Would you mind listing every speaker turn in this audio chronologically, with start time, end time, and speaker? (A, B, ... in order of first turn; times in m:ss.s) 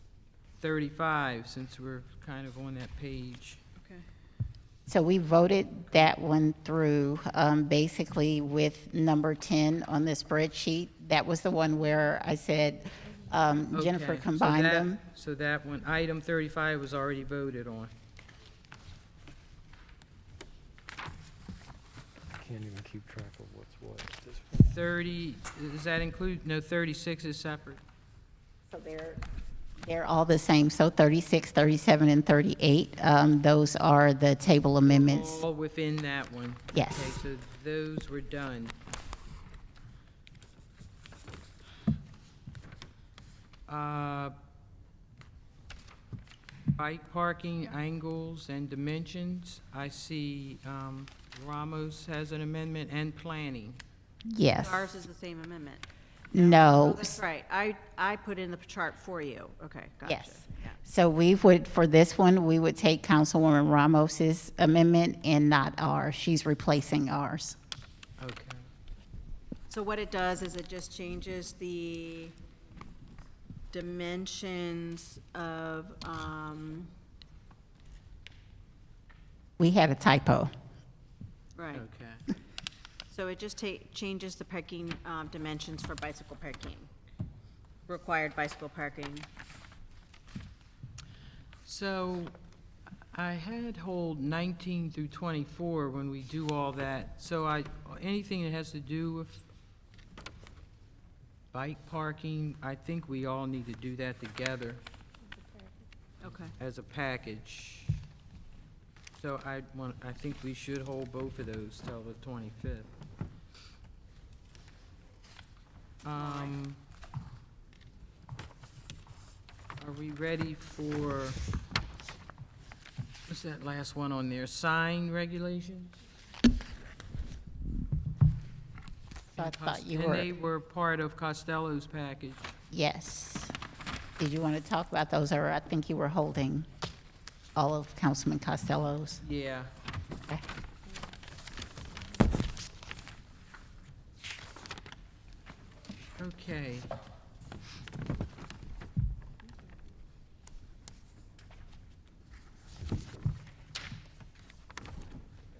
0:00.6-0:03.6 A
0:03.8-0:04.0 B
0:04.9-0:15.0 C
0:13.7-0:17.9 A
0:22.4-0:24.7 D
0:24.5-0:27.8 A
0:28.7-0:29.2 C
0:29.8-0:35.4 C
0:34.8-0:38.8 A
0:36.7-0:37.2 C
0:43.7-0:44.3 A
0:46.8-0:53.8 A
0:54.3-0:54.8 C
0:54.6-1:00.8 B
0:56.3-0:57.1 C
1:00.1-1:07.6 C
1:08.2-1:08.6 A
1:09.7-1:12.4 B
1:13.7-1:16.9 B
1:19.6-1:20.5 C
1:21.6-1:21.8 B
1:21.7-1:22.3 A
1:23.1-1:26.9 B
1:27.9-1:29.3 B
1:31.6-1:32.4 A
1:33.1-1:39.4 A
1:41.5-1:44.8 A
1:46.2-1:46.5 B
1:46.6-1:48.0 A
1:49.2-1:52.9 A
1:56.0-1:56.8 A
1:56.2-1:56.6 B
1:59.8-2:01.4 A
2:03.3-2:06.0 A
2:09.3-2:12.5 A
2:09.4-2:10.3 C
2:12.7-2:13.5 C
2:14.2-2:16.7 C
2:17.6-2:19.2 C
2:19.2-2:19.7 A
2:26.2-2:26.9 A